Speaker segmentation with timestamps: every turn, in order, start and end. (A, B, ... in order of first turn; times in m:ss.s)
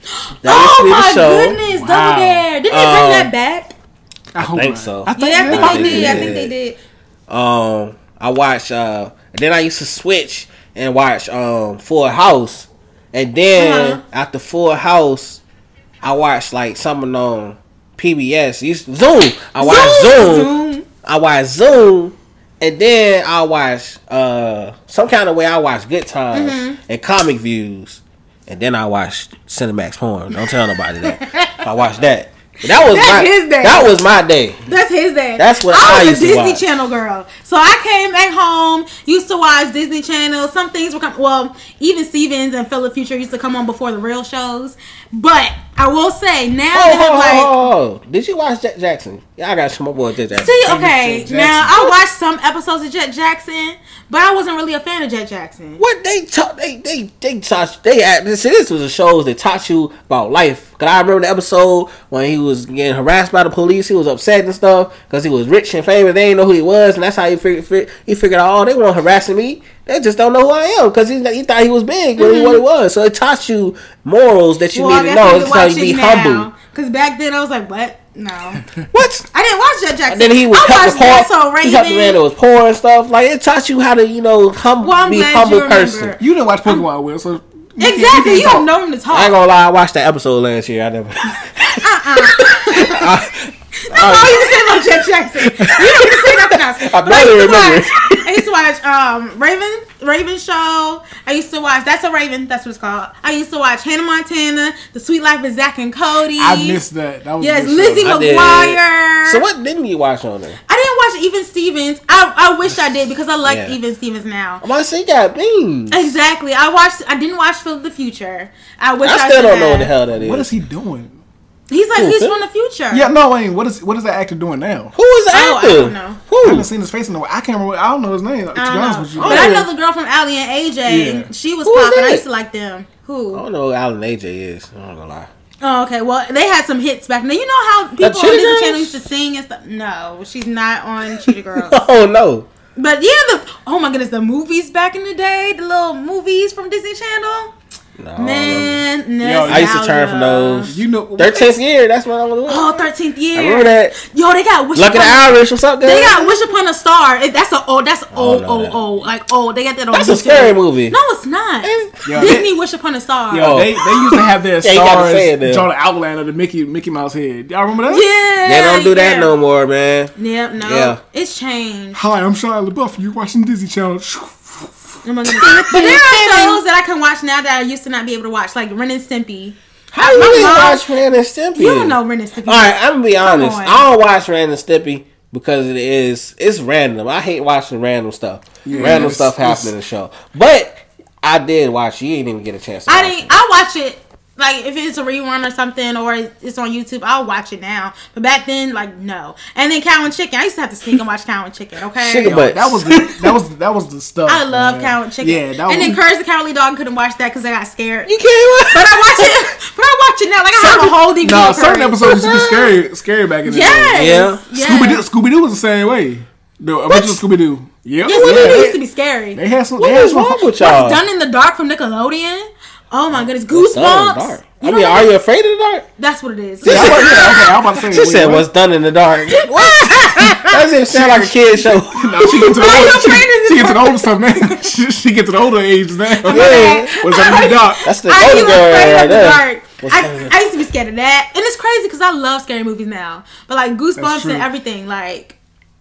0:00.4-0:01.6 A
0:00.4-0:03.7 B
0:01.7-0:02.5 C
0:02.7-0:03.3 A
0:04.3-0:06.4 C
0:04.4-0:06.5 A
0:05.1-0:06.8 B
0:07.3-0:15.4 A
0:13.5-0:14.0 B
0:16.0-0:34.6 A
0:19.6-0:20.8 B
0:26.3-0:26.8 B
0:31.0-0:31.6 B
0:32.6-0:34.0 B
0:34.7-0:47.5 B
0:35.4-0:36.6 A
0:46.7-0:50.6 A
0:50.3-0:55.8 B
0:50.6-0:51.9 C
0:55.8-1:16.5 A
1:12.2-1:12.6 B
1:14.7-1:18.6 B
1:18.9-1:19.3 A
1:19.3-1:22.2 B
1:20.1-1:26.2 A
1:24.8-1:26.8 B
1:26.2-1:28.7 C
1:27.8-1:29.4 B
1:29.1-1:38.4 A
1:31.7-1:33.1 B
1:33.8-1:46.8 B
1:46.4-1:48.2 C
1:47.4-1:49.4 B
1:48.0-1:50.6 A
1:50.7-1:54.6 B
1:53.4-1:53.8 A
1:54.6-1:56.2 A
1:55.9-1:59.9 B
1:59.0-2:00.5 A
2:00.1-2:01.2 C
2:01.7-2:03.1 B
2:02.0-2:02.4 A
2:02.9-2:04.9 C
2:04.9-2:06.7 A
2:05.3-2:06.2 B
2:06.4-2:09.6 C
2:08.5-2:13.4 B
2:09.2-2:09.7 A
2:10.8-2:11.3 C
2:11.6-2:12.2 A
2:13.3-2:15.3 A
2:15.6-2:21.8 B
2:18.0-2:19.0 A
2:21.2-2:22.5 A
2:22.8-2:27.5 B
2:28.0-2:28.8 A
2:28.2-2:30.7 B
2:29.2-2:29.7 C
2:29.4-2:34.0 A
2:30.7-2:31.6 C
2:32.4-2:43.6 B
2:34.7-2:36.4 A
2:38.1-2:38.8 A
2:39.9-2:41.0 A
2:41.6-2:42.4 A
2:42.0-2:42.5 C
2:43.3-2:48.0 C
2:43.4-2:45.7 A
2:47.9-2:49.3 B
2:48.4-2:51.0 A
2:50.2-2:52.0 B
2:51.9-2:55.7 C
2:55.0-3:00.9 B
2:55.4-2:56.6 A
2:59.9-3:13.3 A
3:01.5-3:03.8 B
3:08.6-3:09.7 C
3:08.7-3:09.0 B
3:12.9-3:22.4 B
3:22.0-3:23.3 A
3:22.2-3:26.0 C
3:24.2-3:32.5 B
3:28.1-3:29.4 A
3:30.6-3:38.8 C
3:32.0-3:32.7 A
3:33.5-3:35.0 B
3:33.9-3:34.4 A
3:36.9-3:37.2 B
3:38.0-3:39.4 B
3:38.2-3:38.7 A
3:39.3-3:40.4 C
3:39.8-3:41.0 A
3:40.6-3:45.1 B
3:43.2-3:45.9 A
3:46.0-3:47.5 B
3:46.6-3:52.5 A
3:46.6-3:48.5 C
3:49.3-3:50.6 B
3:50.8-3:57.8 C
3:52.2-3:54.5 B
3:56.2-4:05.4 B
3:56.2-3:57.0 A
3:57.8-4:00.3 A
4:04.0-4:04.4 C